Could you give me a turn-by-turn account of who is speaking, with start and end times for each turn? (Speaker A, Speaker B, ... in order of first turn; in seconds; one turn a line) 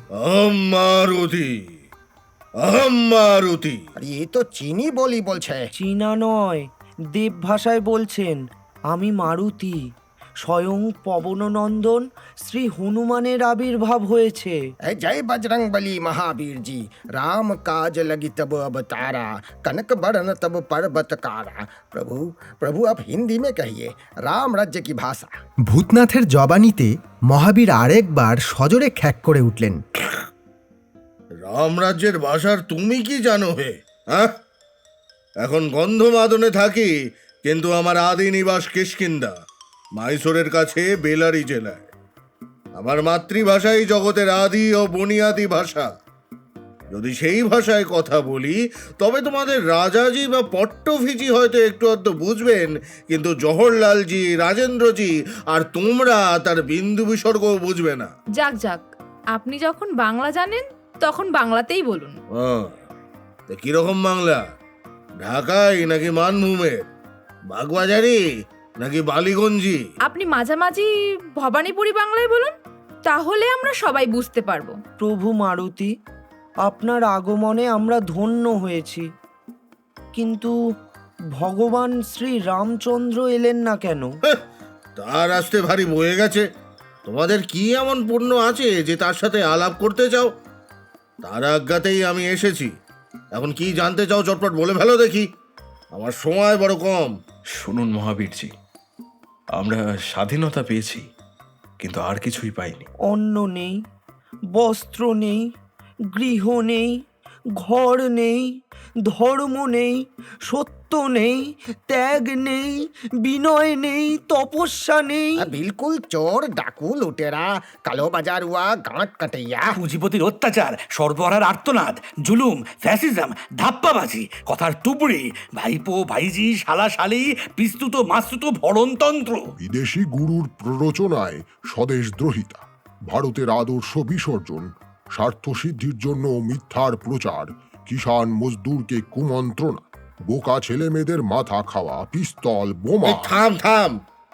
Speaker A: 0.2-1.6
Speaker A: 2.6-3.8
Speaker B: 4.0-5.7
Speaker C: 5.8-8.4
Speaker C: 8.9-9.8
Speaker C: 10.4-14.6
Speaker B: 14.8-25.3
Speaker D: 25.7-29.8
Speaker A: 31.4-34.4
Speaker A: 35.4-36.9
Speaker A: 37.5-39.3
Speaker A: 40.0-41.9
Speaker A: 42.8-45.9
Speaker A: 46.9-58.1
Speaker E: 58.4-62.1
Speaker A: 62.4-62.7
Speaker A: 63.5-64.4
Speaker A: 65.2-66.9
Speaker A: 67.5-68.2
Speaker A: 68.8-69.8
Speaker E: 70.1-72.5
Speaker E: 73.1-74.8
Speaker C: 75.0-75.9
Speaker C: 76.7-79.0
Speaker C: 80.2-80.5
Speaker C: 81.3-84.1
Speaker A: 85.0-86.4
Speaker A: 87.1-90.3
Speaker A: 91.2-92.7
Speaker A: 93.3-95.2
Speaker A: 95.9-97.1
Speaker F: 97.6-98.5
Speaker F: 99.5-101.0
Speaker F: 101.8-102.9
Speaker C: 103.1-103.7
Speaker C: 104.5-105.4
Speaker C: 106.1-106.9
Speaker C: 107.6-108.4
Speaker C: 109.1-109.9
Speaker C: 110.5-111.4
Speaker C: 111.9-115.4
Speaker B: 115.4-119.7
Speaker G: 119.8-129.4
Speaker H: 129.6-143.3
Speaker A: 143.1-144.0